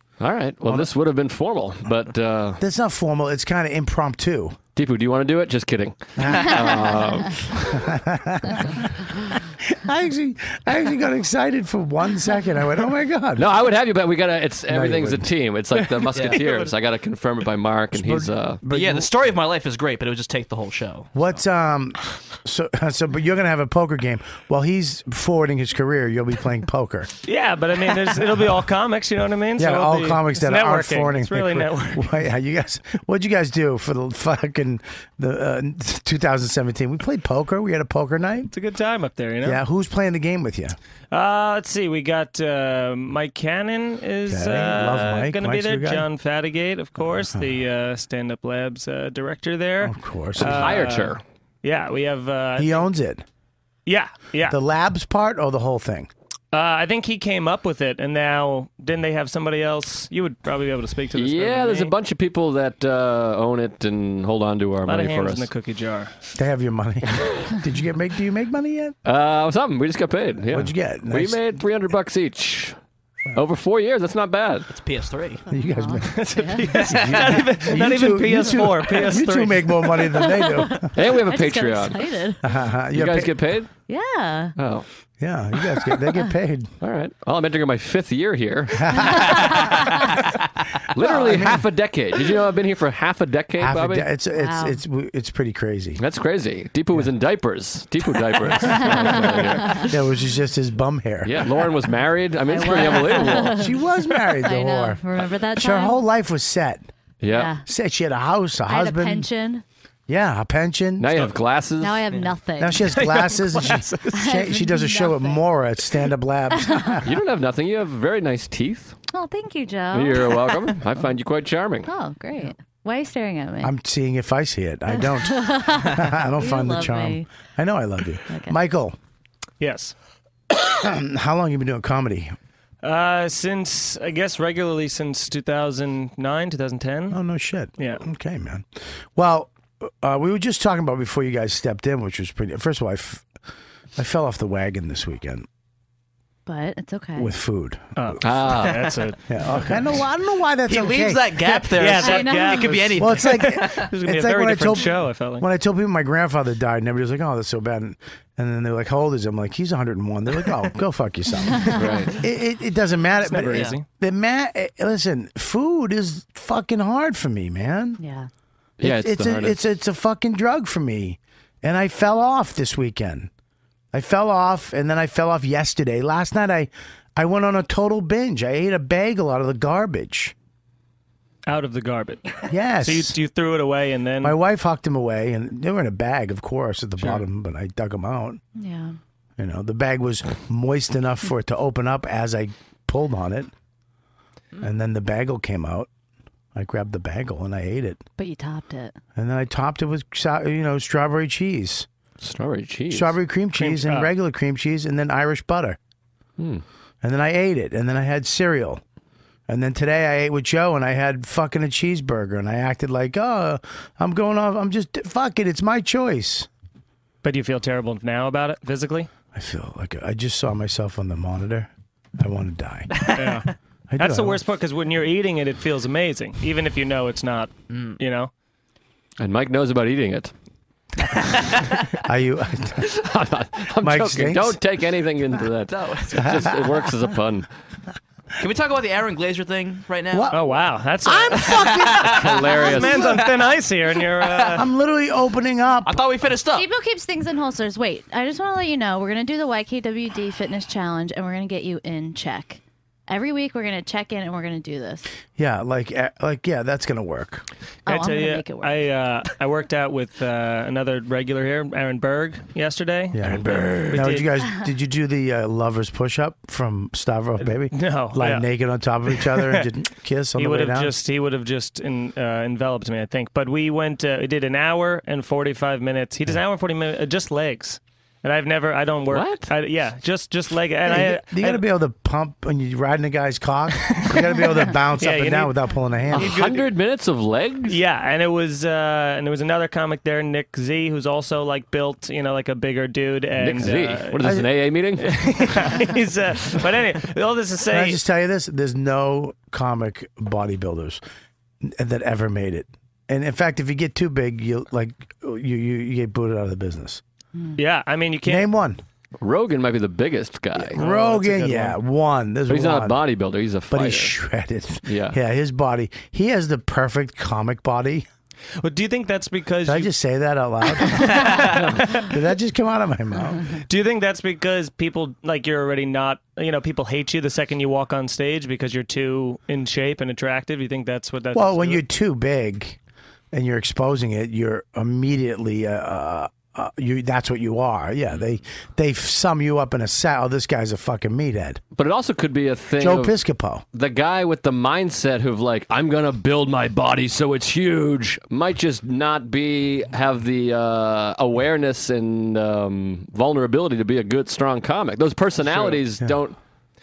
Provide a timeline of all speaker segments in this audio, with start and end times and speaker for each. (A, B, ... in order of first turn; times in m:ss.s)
0:00.2-0:02.6 A
0:00.6-0:00.9 B
0:02.6-0:04.6 B
0:04.7-0:07.8 A
0:06.2-0:07.0 B
0:07.6-0:13.5 B
0:13.4-0:18.6 A
0:14.7-0:15.3 B
0:16.1-0:16.5 C
0:17.9-0:19.1 B
0:18.7-0:21.2 C
0:21.1-0:27.1 B
0:27.2-0:32.1 D
0:29.6-0:38.5 B
0:38.5-0:39.6 D
0:39.4-0:40.8 B
0:41.1-0:52.9 D
0:44.2-0:46.1 B
0:47.0-0:47.6 B
0:49.8-0:50.9 B
0:50.4-0:51.2 A
0:52.6-0:53.2 B
0:53.8-0:54.6 D
0:54.5-0:56.1 B
0:56.5-1:01.9 D
1:01.1-1:05.5 A
1:04.8-1:06.1 D
1:06.4-1:09.0 B
1:09.0-1:12.8 A
1:10.5-1:11.4 B
1:13.3-1:14.7 A
1:14.7-1:15.4 C
1:15.5-1:20.9 B
1:15.6-1:16.9 E
1:16.0-1:20.1 D
1:16.9-1:17.3 C
1:20.0-1:22.4 E
1:20.9-1:22.1 A
1:22.4-1:23.4 B
1:22.9-1:23.7 A
1:23.9-1:24.5 E
1:24.6-1:24.8 A
1:25.2-1:26.7 B
1:26.8-1:29.7 A
1:28.8-1:29.5 B
1:29.1-1:30.0 E
1:30.9-1:34.1 A
1:31.0-1:31.6 B
1:33.6-1:36.0 B
1:34.4-1:34.8 E
1:36.0-1:39.9 A
1:38.6-1:39.9 E
1:38.7-1:39.1 B
1:39.9-1:41.5 B
1:41.2-1:43.6 A
1:42.5-1:46.0 E
1:43.5-1:45.0 B
1:45.5-1:46.9 B
1:47.2-1:47.6 A
1:47.3-1:47.6 E
1:47.6-1:49.3 B
1:48.7-1:49.6 E
1:50.1-1:51.2 B
1:51.0-1:52.0 A
1:51.8-1:53.0 E
1:52.6-1:57.1 B
1:52.9-1:53.8 D
1:53.6-1:54.0 C
1:54.1-1:55.5 E
1:56.6-1:57.0 E
1:57.0-1:58.9 A
1:59.1-2:01.0 E
1:59.9-2:01.9 A
2:01.8-2:03.7 E
2:03.6-2:09.0 B
2:04.9-2:07.3 E
2:08.3-2:08.5 E
2:09.6-2:09.9 D
2:10.6-2:12.4 B
2:12.8-2:17.2 D
2:17.1-2:23.2 B
2:17.8-2:18.0 D
2:24.0-2:25.4 B
2:26.5-2:27.3 E
2:27.2-2:28.5 B
2:28.0-2:29.8 D
2:28.2-2:28.9 A
2:29.3-2:32.0 B
2:30.7-2:33.9 C
2:31.7-2:35.5 D
2:32.0-2:32.8 E
2:32.9-2:48.0 B
2:41.7-2:42.2 A
2:43.2-2:43.9 D
2:43.5-2:43.8 C
2:48.0-2:48.3 E
2:48.8-2:49.6 A
2:48.8-2:53.3 B
2:53.9-3:00.3 B
3:01.5-3:04.4 D
3:02.5-3:03.2 B
3:04.2-3:08.4 B
3:08.5-3:09.0 E
3:09.4-3:13.5 B
3:14.6-3:15.9 B
3:16.5-3:18.0 B
3:18.2-3:19.0 E
3:19.2-3:21.9 B
3:22.2-3:23.1 A
3:22.9-3:25.8 B
3:23.5-3:24.2 D
3:26.4-3:26.6 A
3:27.0-3:28.8 B
3:29.5-3:36.5 B
3:37.2-3:39.1 D
3:39.3-3:43.1 B
3:42.9-3:43.4 C
3:43.1-3:48.3 D
3:43.9-3:44.4 B
3:47.7-3:48.0 C
3:49.2-3:50.3 A
3:52.0-3:52.9 B
3:52.8-3:57.5 A
3:53.8-3:54.6 B
3:55.7-3:56.4 C
3:56.2-3:56.5 B
3:58.4-4:00.5 C
4:00.1-4:02.9 B
4:00.3-4:01.7 D
4:01.3-4:03.0 C
4:02.0-4:03.2 A
4:02.7-4:04.6 D
4:04.2-4:04.6 C
4:04.5-4:06.0 B
4:05.8-4:06.7 C
4:06.5-4:15.1 E
4:15.4-4:17.4 B
4:17.8-4:18.9 E
4:17.9-4:24.3 D
4:23.1-4:30.9 B
4:27.4-4:28.5 D
4:29.1-4:29.7 D
4:30.3-4:41.6 D
4:39.1-4:39.5 A
4:40.8-4:46.5 B
4:43.9-4:46.7 D
4:46.1-4:47.8 A
4:47.7-4:54.4 D
4:53.4-4:55.1 A
4:55.0-4:58.0 D
4:57.7-5:01.0 B
5:01.6-5:07.0 B
5:07.6-5:08.5 D
5:08.2-5:08.8 B
5:09.2-5:10.8 A
5:10.6-5:13.0 B
5:10.7-5:11.8 D
5:12.5-5:14.1 A
5:13.7-5:18.1 B
5:14.8-5:15.2 A
5:18.6-5:19.9 D
5:19.6-5:23.6 B
5:21.2-5:21.4 C
5:21.5-5:21.9 A
5:21.8-5:22.0 D
5:23.6-5:31.8 D
5:31.3-5:32.8 B
5:33.3-5:41.6 B
5:41.7-5:43.2 A
5:42.8-5:43.6 B
5:43.7-5:56.4 A
5:55.4-5:55.8 D